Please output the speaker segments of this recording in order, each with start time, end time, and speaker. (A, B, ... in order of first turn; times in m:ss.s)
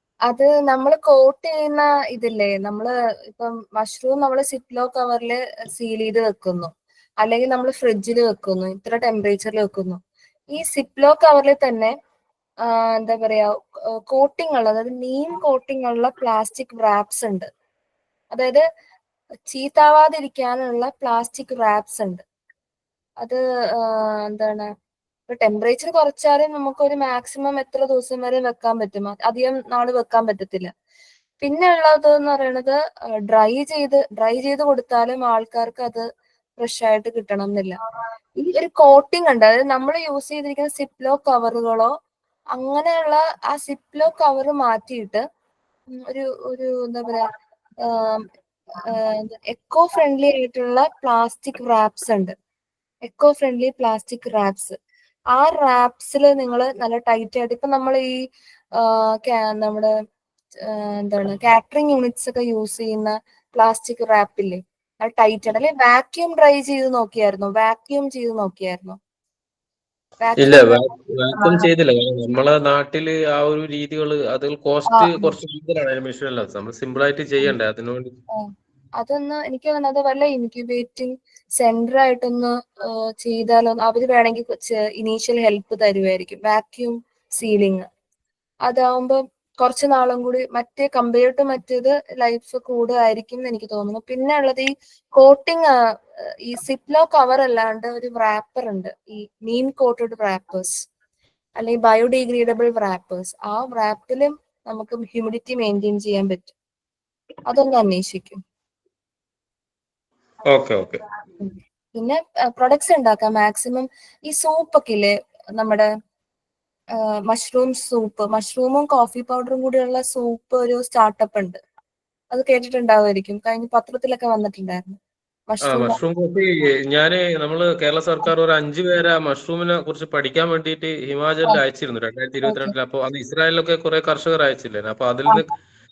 0:00.3-0:06.7 A
0:07.2-0:10.0 A
0:10.5-0:11.9 A
0:12.7-0:13.5 A
0:14.1-0:17.5 A
0:18.3-0:18.6 A
0:19.5-0:22.2 A
0:23.2-0:24.7 A
0:25.3-0:30.7 A
0:31.4-0:32.8 A
0:33.3-0:36.0 A
0:36.6-0:37.7 A
0:38.4-0:41.9 A
0:42.6-0:45.2 A
0:46.0-0:47.2 A
0:47.8-0:48.2 A
0:48.9-0:52.3 A
0:53.1-0:54.7 A
0:55.3-0:58.1 A
0:58.8-0:59.9 A
1:00.7-1:09.0 A
1:10.2-1:11.7 A
1:10.4-1:18.1 B
1:14.9-1:15.3 A
1:19.0-1:27.8 A
1:28.7-1:35.7 A
1:36.4-1:40.8 A
1:41.6-1:46.5 A
1:47.5-1:48.4 A
1:50.5-1:51.0 B
1:51.4-1:55.9 A
1:57.3-2:01.6 A
2:02.3-2:05.0 A
2:05.5-2:06.0 A
2:05.7-2:15.5 B
2:12.4-2:12.7 A